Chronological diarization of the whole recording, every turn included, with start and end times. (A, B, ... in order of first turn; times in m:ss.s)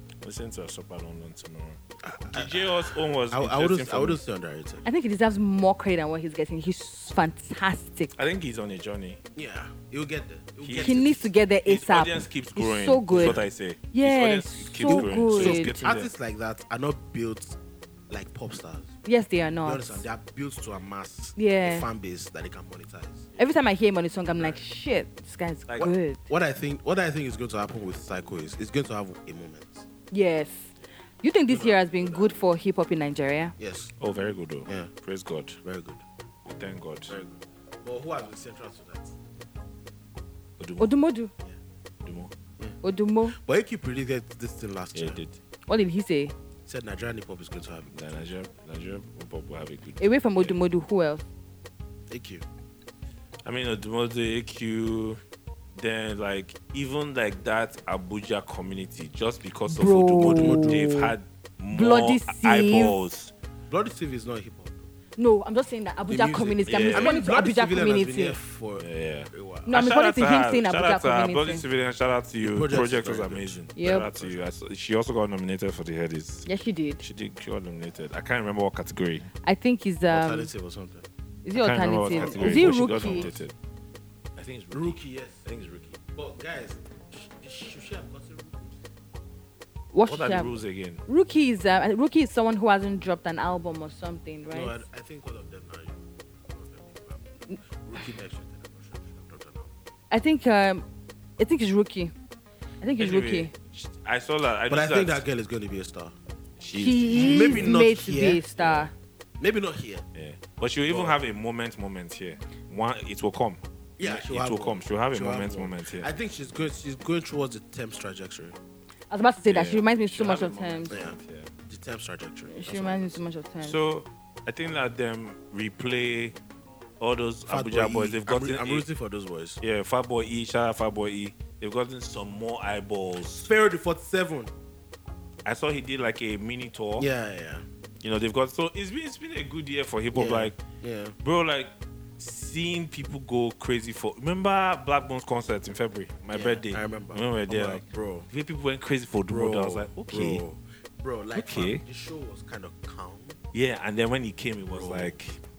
0:00.2-0:04.2 A
0:02.0-0:04.9 B
0:04.8-0:08.1 C
0:08.2-0:09.2 A
0:09.4-0:11.3 B
0:10.6-0:11.0 A
0:10.8-0:15.9 C
0:11.7-0:16.1 A
0:13.1-0:13.4 B
0:14.8-0:17.6 B
0:18.1-0:19.0 B
0:19.0-0:20.0 C
0:19.6-0:23.3 B
0:21.4-0:21.9 C
0:23.4-0:26.2 C
0:24.4-0:24.6 B
0:25.8-0:29.9 B
0:30.1-0:33.6 C
0:31.5-0:32.4 B
0:33.6-0:34.0 B
0:34.0-0:35.6 A
0:35.6-0:36.0 B
0:36.5-0:37.2 A
0:37.1-0:39.2 B
0:40.6-0:40.9 A
0:40.8-0:41.3 C
0:42.0-0:42.3 A
0:42.6-0:45.2 B
0:42.8-0:43.4 C
0:44.9-0:45.4 A
0:45.7-0:46.3 C
0:46.7-0:48.3 B
0:47.9-0:50.6 A
0:50.0-0:51.2 C
0:52.1-0:52.4 B
0:53.4-0:55.2 A
0:55.8-1:03.3 A
0:59.7-1:01.1 C
1:00.2-1:00.9 B
1:01.7-1:03.0 C
1:03.7-1:04.9 B
1:05.2-1:08.4 C
1:06.1-1:09.9 B
1:06.7-1:07.2 A
1:08.8-1:16.5 A
1:09.7-1:11.6 C
1:12.4-1:14.4 B
1:13.8-1:14.1 C
1:16.5-1:17.0 C
1:17.0-1:19.3 A
1:19.4-1:20.5 C
1:20.1-1:21.1 B
1:21.4-1:23.3 C
1:21.5-1:23.5 A
1:22.1-1:23.5 B
1:24.4-1:26.0 A
1:24.7-1:25.5 B
1:26.1-1:28.8 B
1:29.9-1:34.8 C
1:30.1-1:31.0 A
1:34.5-1:39.7 B
1:40.1-1:40.8 C
1:41.4-1:42.1 C
1:42.8-1:43.5 C
1:43.0-1:45.2 A
1:44.7-1:46.2 B
1:46.6-1:47.8 A
1:46.7-1:48.9 C
1:47.2-1:48.4 B
1:48.6-1:48.9 A
1:49.4-1:50.0 B
1:50.2-1:56.1 A
1:50.9-1:51.2 B
1:54.0-1:58.6 B
1:59.1-2:00.9 C
1:59.4-2:01.5 A
2:00.9-2:01.2 B
2:01.7-2:03.2 B
2:02.5-2:03.8 C
2:03.6-2:06.4 A
2:07.0-2:08.8 A
2:07.5-2:09.6 B
2:09.6-2:13.5 A
2:13.4-2:14.5 B
2:15.4-2:17.1 A
2:17.0-2:17.6 B
2:18.0-2:20.6 A
2:20.1-2:21.2 B
2:21.2-2:30.4 A
2:26.3-2:28.3 B
2:29.3-2:33.4 B
2:31.4-2:31.8 A
2:33.5-2:35.4 A
2:34.7-2:35.2 B